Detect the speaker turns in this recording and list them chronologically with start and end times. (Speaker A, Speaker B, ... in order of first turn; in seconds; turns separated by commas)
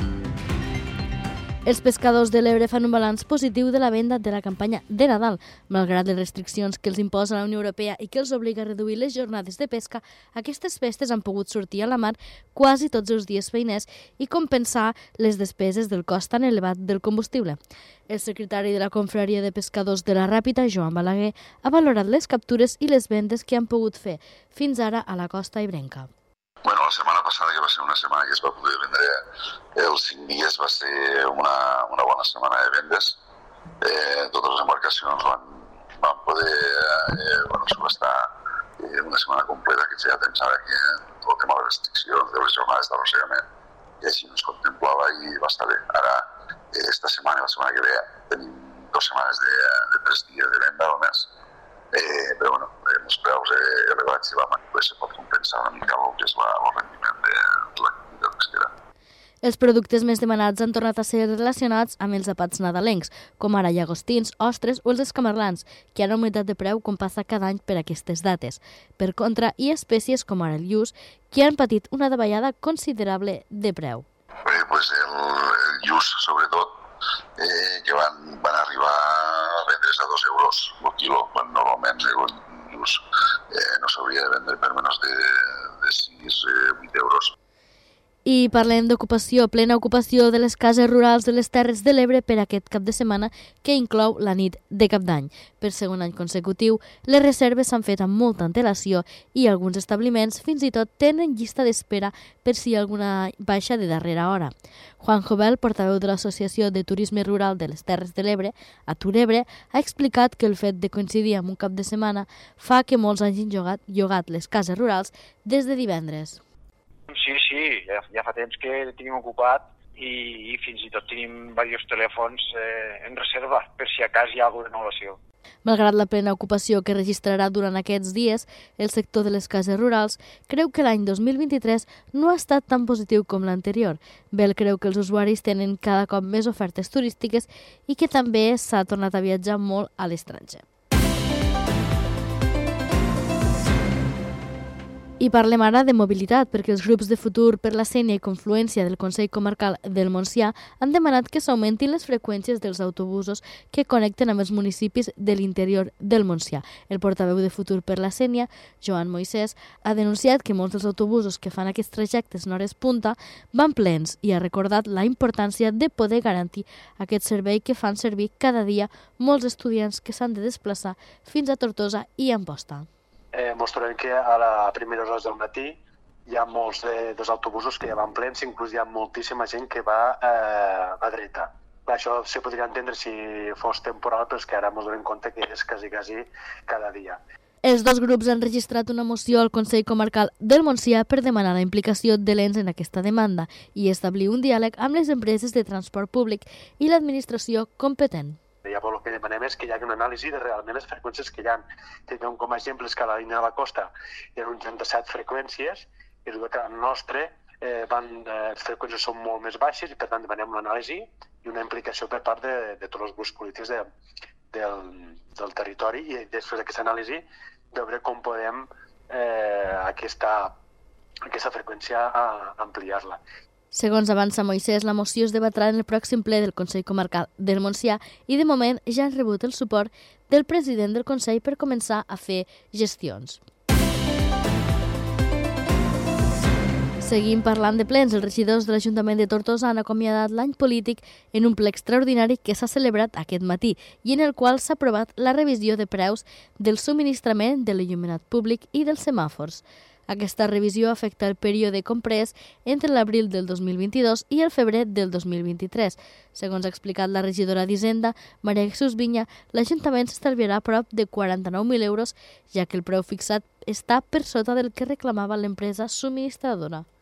Speaker A: 1.6-17.6, Speaker A: 18.1-26.1, Speaker B: 26.6-29.2, Speaker B: 29.8-33.2, Speaker B: 33.8-35.5, Speaker B: 36.0-38.3, Speaker B: 38.8-43.4, Speaker B: 44.0-51.3, Speaker B: 51.9-58.7, Speaker A: 59.4-74.0, Speaker B: 74.5-76.7, Speaker B: 77.4-87.3, Speaker A: 88.3-116.4, Speaker C: 117.1-125.2, Speaker A: 125.7-140.6, Speaker A: 145.2-172.9, Speaker D: 173.3-187.2, Speaker A: 187.6-198.4, Speaker D: 198.7-213.8, Speaker D: 214.5-220.6, Speaker D: 221.3-223.2, Speaker A: 223.7-233.4, Speaker A: 237.0-266.9